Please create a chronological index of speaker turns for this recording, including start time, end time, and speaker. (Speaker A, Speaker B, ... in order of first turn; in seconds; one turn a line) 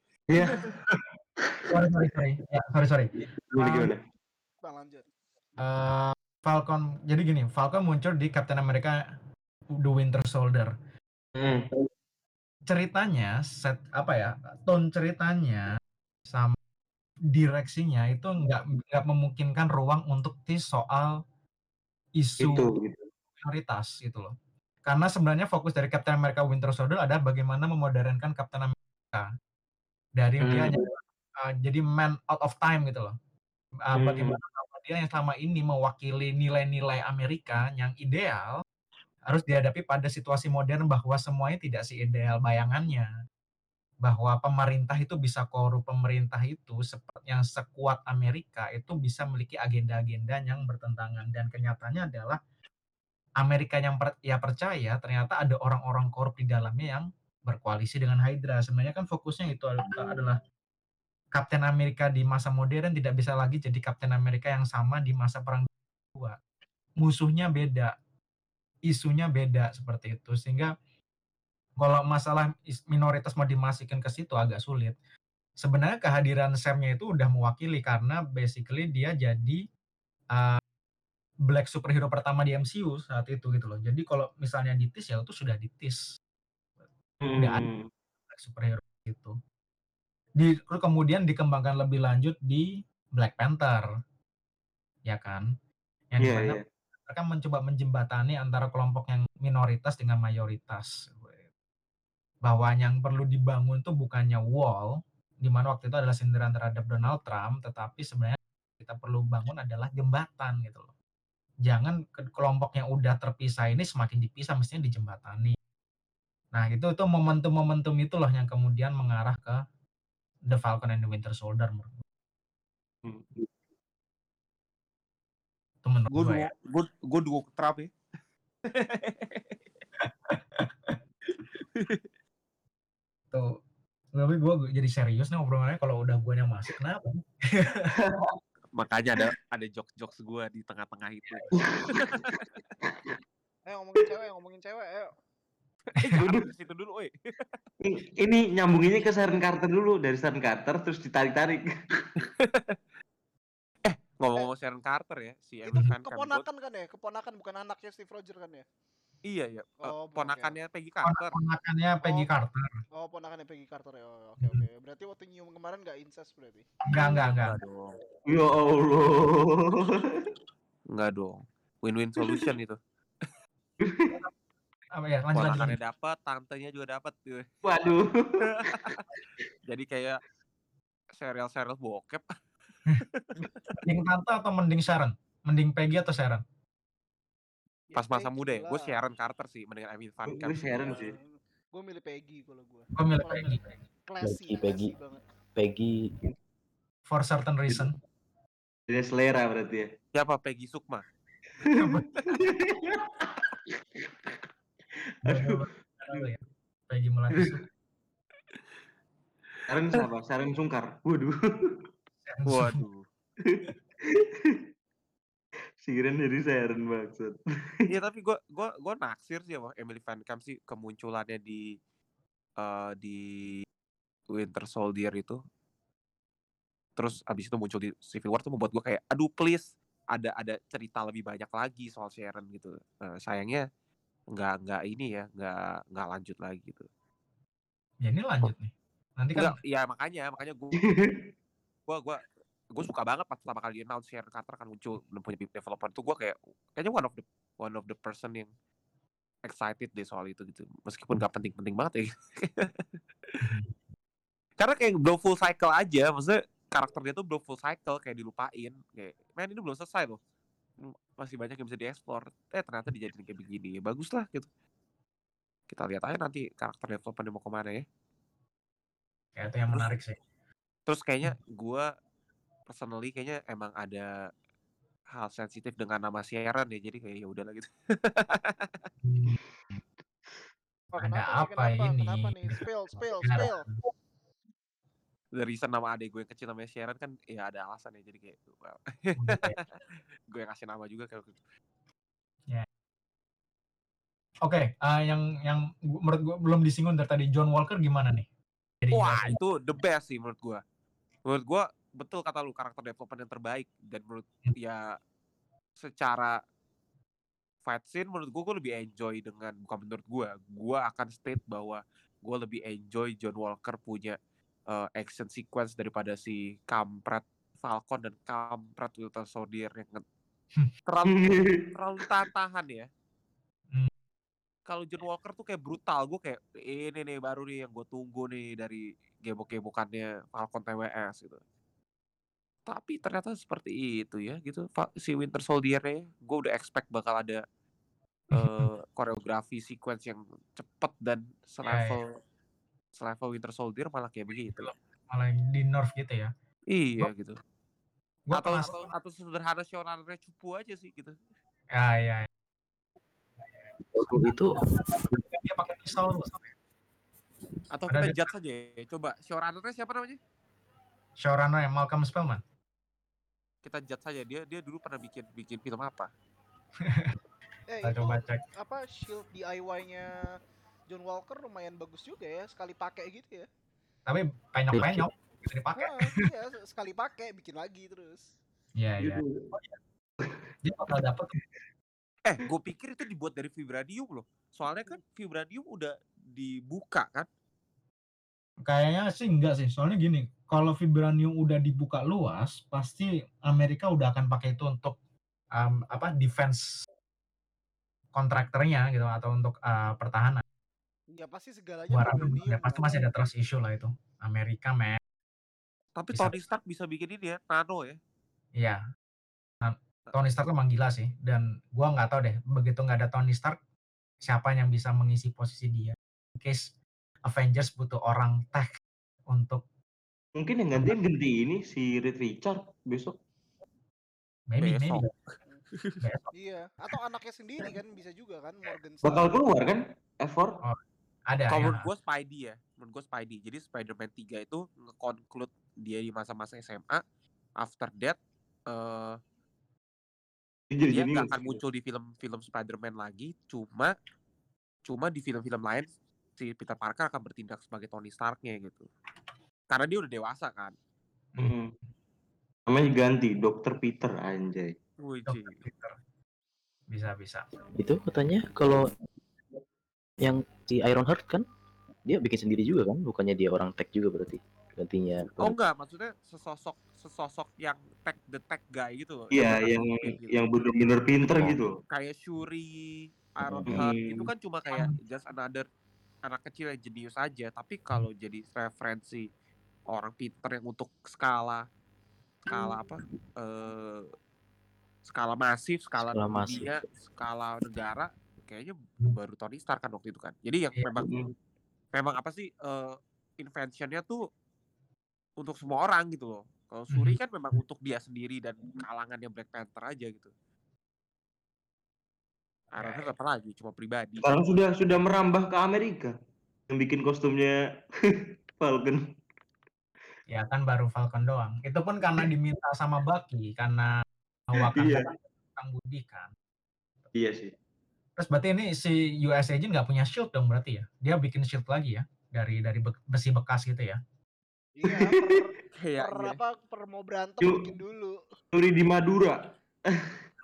Speaker A: 0.3-1.7
Speaker B: 1.7-3.9
Speaker A: 3.5-4.0
Speaker C: 4.6-5.1
Speaker B: 5.6-9.0
Speaker B: 9.8-10.7
Speaker A: 11.3-11.7
Speaker B: 12.7-15.7
Speaker B: 16.3-16.6
Speaker B: 17.3-21.2
Speaker B: 22.2-22.7
Speaker A: 22.4-23.1
Speaker B: 23.4-24.3
Speaker B: 24.9-29.3
Speaker B: 30.2-33.1
Speaker A: 30.4-30.8
Speaker B: 33.9-38.6
Speaker A: 33.9-34.4
Speaker B: 39.3-43.1
Speaker B: 44.0-52.4
Speaker B: 53.4-60.4
Speaker B: 61.3-66.4
Speaker B: 67.0-67.9
Speaker B: 68.9-70.7
Speaker B: 71.8-75.0
Speaker B: 75.6-79.6
Speaker B: 80.3-80.6
Speaker B: 81.5-86.0
Speaker A: 87.2-87.9
Speaker B: 87.3-87.7
Speaker B: 88.3-89.3
Speaker B: 90.4-93.9
Speaker B: 95.0-95.5
Speaker B: 96.1-101.4
Speaker A: 96.2-96.6
Speaker B: 102.4-110.9
Speaker B: 111.6-115.6
Speaker B: 116.5-119.6
Speaker B: 120.5-122.0
Speaker A: 123.0-123.5
Speaker B: 125.8-126.5
Speaker D: 126.1-127.9
Speaker D: 128.7-129.6
Speaker B: 130.0-131.0
Speaker D: 131.7-132.0
Speaker B: 134.1-137.9
Speaker A: 137.9-138.3
Speaker D: 138.8-142.4
Speaker B: 141.3-141.5
Speaker A: 141.5-142.3
Speaker C: 143.7-145.1
Speaker D: 145.9-147.6
Speaker A: 146.2-146.5
Speaker A: 147.8-152.1
Speaker D: 152.4-152.8
Speaker D: 153.8-156.4
Speaker C: 155.7-158.6
Speaker D: 159.3-161.4
Speaker C: 159.8-160.6
Speaker B: 161.0-162.8
Speaker C: 162.0-162.3
Speaker C: 163.0-166.7
Speaker B: 166.9-167.6
Speaker D: 167.1-167.9
Speaker A: 168.3-170.2
Speaker D: 170.9-172.8
Speaker A: 173.8-174.2
Speaker B: 175.0-175.8
Speaker D: 175.3-177.4
Speaker A: 177.6-179.0
Speaker D: 178.6-179.0
Speaker D: 179.7-180.2
Speaker D: 181.2-182.2
Speaker D: 183.0-183.7
Speaker B: 183.8-186.4
Speaker C: 187.9-189.0
Speaker D: 187.9-191.0
Speaker A: 190.3-191.2
Speaker C: 190.8-195.2
Speaker B: 192.9-193.7
Speaker E: 194.2-194.9
Speaker E: 195.6-196.1
Speaker B: 197.1-198.0
Speaker A: 198.9-199.9
Speaker D: 200.1-201.1
Speaker A: 201.6-204.3
Speaker B: 201.6-202.1
Speaker A: 205.2-206.2
Speaker B: 205.2-207.6
Speaker A: 209.7-211.8
Speaker B: 212.2-212.8
Speaker D: 212.4-213.1
Speaker A: 213.4-214.6
Speaker A: 215.8-217.4
Speaker D: 217.9-221.8
Speaker D: 222.6-223.6
Speaker D: 224.3-225.4
Speaker D: 227.0-233.6
Speaker D: 234.3-236.9
Speaker B: 238.0-239.6
Speaker D: 239.3-240.8
Speaker A: 240.8-241.2
Speaker D: 241.9-242.2
Speaker D: 242.7-248.5
Speaker D: 249.5-253.5
Speaker B: 253.4-253.7
Speaker D: 254.6-260.2
Speaker D: 260.8-264.5
Speaker D: 265.7-267.8
Speaker B: 269.4-270.2
Speaker D: 270.9-271.9
Speaker D: 272.7-274.1
Speaker D: 275.1-278.8
Speaker B: 279.0-279.4
Speaker C: 280.9-283.6
Speaker B: 281.0-283.7
Speaker D: 285.4-289.7
Speaker B: 289.2-289.6
Speaker D: 290.3-291.4
Speaker B: 294.4-298.3
Speaker B: 298.8-299.4
Speaker D: 298.9-300.6
Speaker D: 301.2-304.8
Speaker D: 305.8-306.4
Speaker D: 307.6-314.2
Speaker D: 314.7-320.0
Speaker D: 320.9-322.9
Speaker A: 321.1-321.6
Speaker D: 324.7-331.4
Speaker D: 332.7-337.4
Speaker D: 338.3-342.1
Speaker B: 338.3-338.7
Speaker B: 341.6-342.0
Speaker D: 343.0-344.7
Speaker B: 344.4-346.3
Speaker D: 346.7-347.4
Speaker B: 348.3-348.9
Speaker D: 348.3-351.2
Speaker B: 351.7-352.3
Speaker E: 353.9-354.6
Speaker B: 354.1-354.4
Speaker B: 355.2-356.5
Speaker D: 357.7-360.2
Speaker B: 357.9-358.2
Speaker B: 361.2-362.4
Speaker D: 363.6-366.1
Speaker B: 366.8-367.1
Speaker C: 367.7-370.2
Speaker B: 367.8-368.4
Speaker C: 370.9-373.5
Speaker B: 374.1-376.0
Speaker E: 374.7-375.0
Speaker C: 375.8-378.3
Speaker B: 378.8-379.8
Speaker A: 379.0-379.3
Speaker B: 380.6-381.3
Speaker D: 382.2-387.3
Speaker B: 388.6-395.0
Speaker B: 395.5-396.6
Speaker B: 398.1-400.4
Speaker C: 401.1-403.1
Speaker B: 401.9-405.0
Speaker D: 405.9-408.0
Speaker B: 409.6-413.6
Speaker B: 414.2-416.8
Speaker B: 417.3-418.7
Speaker B: 419.3-419.6
Speaker A: 420.4-423.1
Speaker B: 424.5-425.1
Speaker D: 424.6-425.1
Speaker D: 425.7-426.0
Speaker B: 426.0-426.3
Speaker C: 426.4-429.4
Speaker A: 429.0-430.6
Speaker B: 430.6-431.9
Speaker D: 431.5-437.0
Speaker D: 437.6-438.2
Speaker D: 438.7-439.2
Speaker A: 440.7-441.6
Speaker D: 440.9-443.9
Speaker D: 444.9-448.9
Speaker D: 449.7-450.7
Speaker A: 451.4-451.7
Speaker A: 452.7-454.7
Speaker D: 455.0-455.6
Speaker B: 455.2-455.9
Speaker B: 456.9-457.4
Speaker E: 457.8-458.8
Speaker E: 460.2-461.4
Speaker E: 462.1-465.5
Speaker D: 465.4-475.6
Speaker A: 469.3-471.8
Speaker E: 473.4-473.8
Speaker A: 473.6-474.3
Speaker B: 474.7-474.9
Speaker D: 476.2-479.3
Speaker D: 479.9-481.6
Speaker A: 482.5-482.8
Speaker D: 482.5-484.1
Speaker D: 485.1-491.1
Speaker E: 486.0-486.8
Speaker A: 490.9-491.3
Speaker D: 491.9-494.2
Speaker D: 495.4-500.3
Speaker B: 496.9-497.2
Speaker D: 502.7-504.3
Speaker B: 502.8-503.1
Speaker A: 504.2-506.1
Speaker A: 506.7-507.6
Speaker A: 508.6-509.0
Speaker B: 510.3-513.9
Speaker B: 514.5-516.3
Speaker A: 514.6-515.1
Speaker A: 517.1-517.5
Speaker B: 518.2-524.0
Speaker C: 524.8-528.2
Speaker A: 524.8-525.4
Speaker D: 525.8-526.4
Speaker A: 527.4-527.7
Speaker A: 528.5-529.4